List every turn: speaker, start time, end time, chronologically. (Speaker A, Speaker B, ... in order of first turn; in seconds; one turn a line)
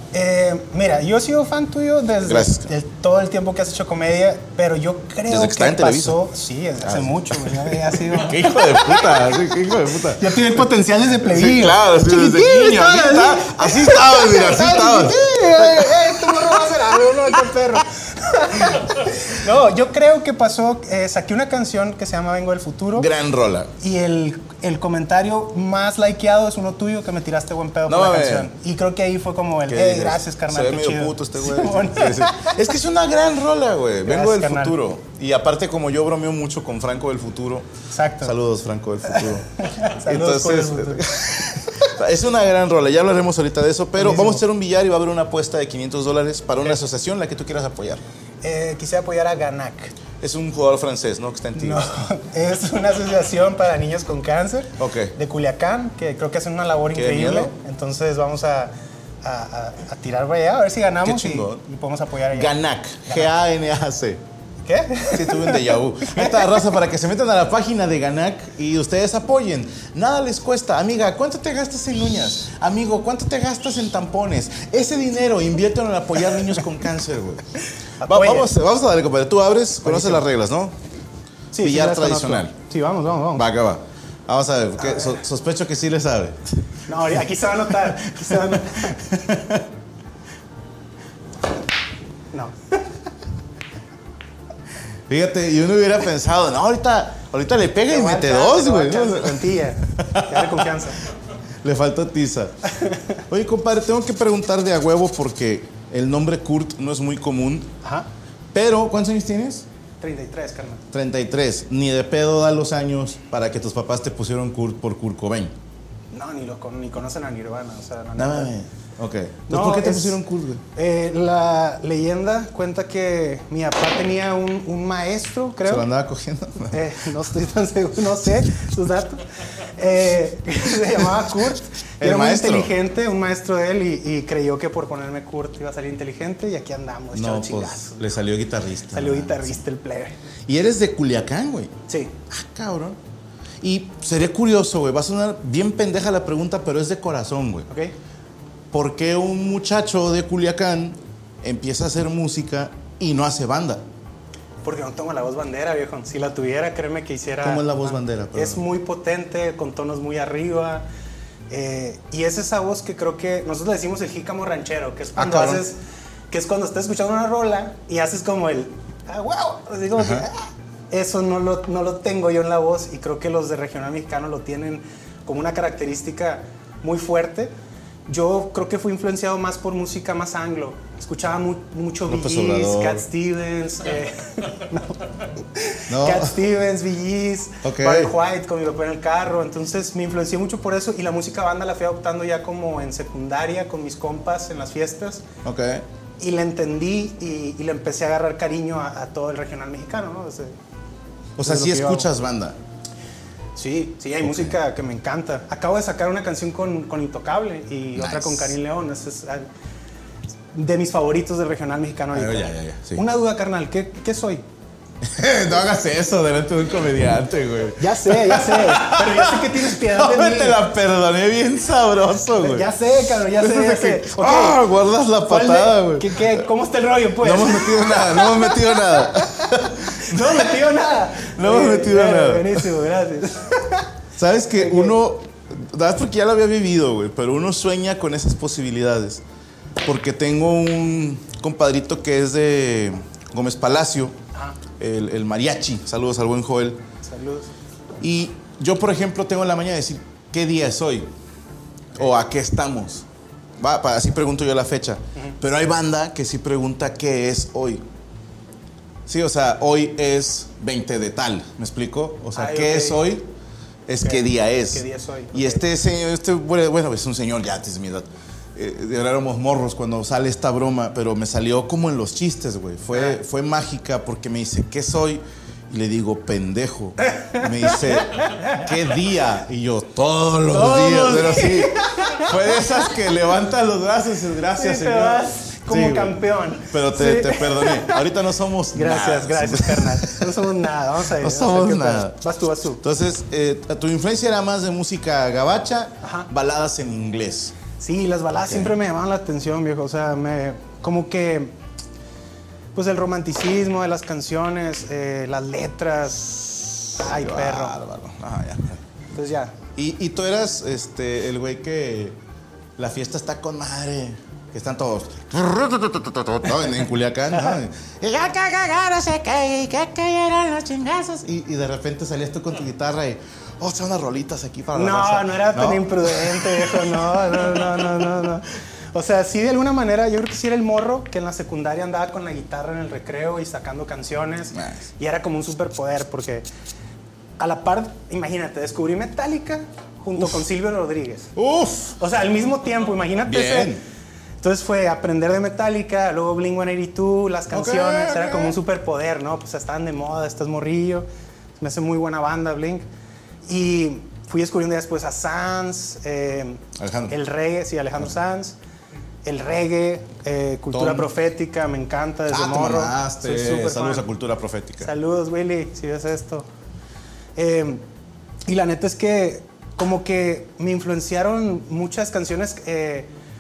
Speaker A: 0.1-23.1
Speaker B: 2.2-2.7
Speaker B: 5.3-6.2
Speaker B: 6.8-10.7
Speaker B: 11.2-16.8
Speaker B: 23.0-23.7
Speaker A: 23.8-32.6
Speaker B: 27.9-28.5
Speaker B: 29.7-37.7
Speaker A: 34.0-34.8
Speaker A: 37.9-38.4
Speaker B: 38.2-48.0
Speaker A: 39.1-41.1
Speaker A: 44.0-44.4
Speaker A: 48.4-50.0
Speaker B: 50.2-51.9
Speaker A: 51.5-62.5
Speaker B: 54.8-55.1
Speaker B: 56.9-57.5
Speaker B: 61.0-61.6
Speaker B: 62.3-64.2
Speaker A: 63.1-63.3
Speaker A: 64.7-66.6
Speaker B: 65.1-80.7
Speaker A: 78.0-78.5
Speaker A: 79.8-80.2
Speaker A: 81.5-83.5
Speaker B: 81.6-82.5
Speaker B: 83.4-86.5
Speaker A: 84.8-85.2
Speaker A: 86.9-89.3
Speaker B: 87.7-89.7
Speaker A: 92.3-92.8
Speaker B: 95.1-100.8
Speaker A: 97.9-101.0
Speaker B: 101.6-102.6
Speaker A: 102.7-103.2
Speaker B: 103.3-107.7
Speaker B: 108.5-109.7
Speaker A: 110.0-110.8
Speaker B: 110.9-115.5
Speaker A: 116.1-118.5
Speaker B: 118.2-120.6
Speaker A: 119.5-120.2
Speaker A: 120.8-125.9
Speaker B: 125.7-126.9
Speaker A: 126.7-138.0
Speaker B: 132.0-132.8
Speaker B: 137.1-139.6
Speaker A: 138.9-140.2
Speaker B: 140.5-141.8
Speaker A: 141.9-142.2
Speaker B: 142.3-143.0
Speaker B: 143.6-147.7
Speaker B: 148.7-153.8
Speaker A: 154.6-160.8
Speaker B: 157.4-158.6
Speaker A: 161.5-165.8
Speaker B: 165.2-165.6
Speaker A: 166.3-177.5
Speaker B: 170.0-170.3
Speaker A: 178.1-195.3
Speaker B: 182.1-183.1
Speaker B: 185.9-186.4
Speaker B: 187.6-188.1
Speaker B: 195.4-195.8
Speaker A: 196.2-200.5
Speaker B: 201.4-202.6
Speaker A: 201.4-202.1
Speaker A: 203.6-209.5
Speaker B: 204.2-204.6
Speaker B: 208.0-208.6
Speaker A: 210.5-214.4
Speaker B: 212.1-213.0
Speaker B: 215.0-222.7
Speaker A: 217.8-220.6
Speaker A: 222.4-224.6
Speaker B: 223.2-226.4
Speaker A: 225.3-233.9
Speaker B: 227.2-230.6
Speaker B: 231.2-232.7
Speaker B: 234.2-239.2
Speaker A: 234.5-235.0
Speaker B: 239.8-244.2
Speaker A: 244.3-244.6
Speaker B: 244.8-246.8
Speaker A: 247.0-247.5
Speaker B: 248.0-251.1
Speaker B: 251.9-253.1
Speaker B: 253.6-257.8
Speaker B: 259.1-263.2
Speaker A: 262.4-263.1
Speaker B: 263.9-292.2
Speaker A: 264.0-265.7
Speaker A: 272.9-273.2
Speaker A: 277.1-278.7
Speaker A: 280.5-282.6
Speaker A: 284.5-288.1
Speaker A: 288.7-292.8
Speaker B: 292.8-297.6
Speaker A: 296.0-296.3
Speaker A: 297.8-301.5
Speaker A: 302.8-307.8
Speaker B: 306.9-308.8
Speaker A: 309.1-309.6
Speaker B: 309.8-312.2
Speaker B: 312.8-327.9
Speaker A: 324.7-336.5
Speaker B: 334.5-334.8
Speaker A: 337.4-341.3
Speaker B: 341.4-342.0
Speaker A: 342.0-343.8
Speaker B: 343.2-343.8
Speaker A: 344.4-351.1
Speaker B: 347.5-348.6
Speaker A: 351.6-352.9
Speaker A: 353.5-358.6
Speaker B: 356.8-357.1
Speaker A: 359.2-364.1
Speaker B: 360.7-361.1
Speaker B: 362.3-364.9
Speaker A: 364.8-366.5
Speaker A: 367.4-367.8
Speaker A: 368.5-373.1